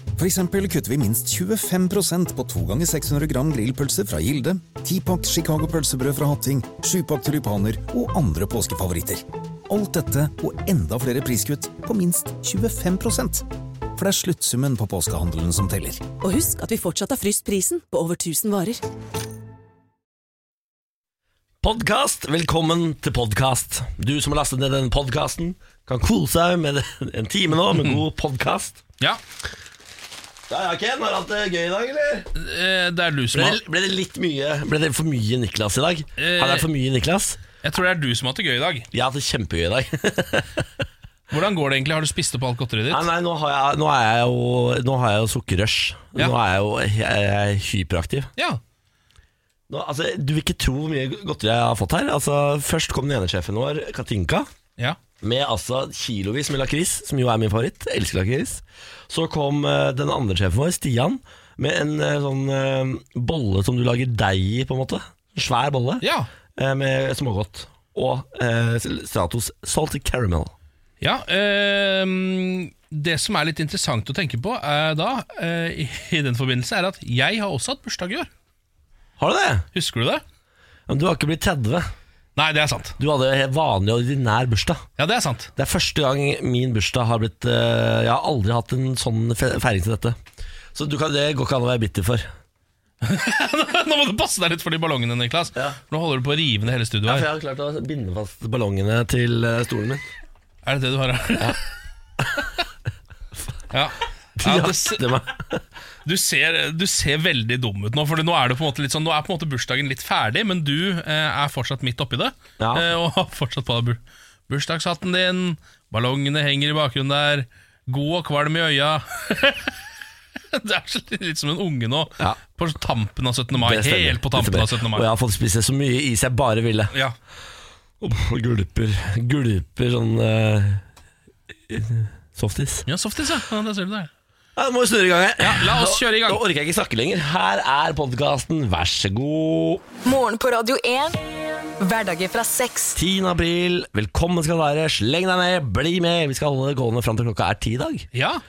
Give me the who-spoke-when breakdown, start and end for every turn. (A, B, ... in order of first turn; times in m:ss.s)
0:00.2-0:16.0 A
0:16.2-0:18.8 B
0:21.6-0:28.8 C
0:27.7-0:28.0 D
0:30.5-0:32.3 C
0:32.4-0:33.6 D
0:33.3-0:37.4 C
0:36.2-0:36.7 D
0:37.6-0:38.9 D
0:38.9-0:40.7 C
0:41.3-0:43.0 D
0:42.9-0:48.3 C
0:49.7-0:54.5 C
0:55.2-1:06.0 C
1:06.0-1:06.3 D
1:06.6-1:10.5 C
1:11.0-1:18.3 D
1:19.2-1:19.6 C
1:19.7-1:20.2 D
1:20.9-1:21.9 C
1:22.4-1:23.0 D
1:23.0-1:24.8 C
1:25.0-1:25.5 D
1:25.6-1:30.2 C
1:30.7-1:32.3 C
1:33.0-1:37.3 D
1:37.0-1:40.0 C
1:40.6-1:41.6 D
1:42.2-1:42.5 C
1:43.7-1:45.1 D
1:44.4-1:45.6 C
1:46.0-1:59.8 D
1:52.6-1:52.9 C
2:00.5-2:05.0 D
2:03.5-2:06.9 C
2:08.0-2:10.8 C
2:11.7-2:12.9 C
2:12.9-2:14.1 D
2:14.6-2:19.8 C
2:15.4-2:16.4 D
2:20.0-2:21.2 E
2:21.8-2:23.0 E
2:23.0-2:28.1 C
2:28.1-2:28.4 D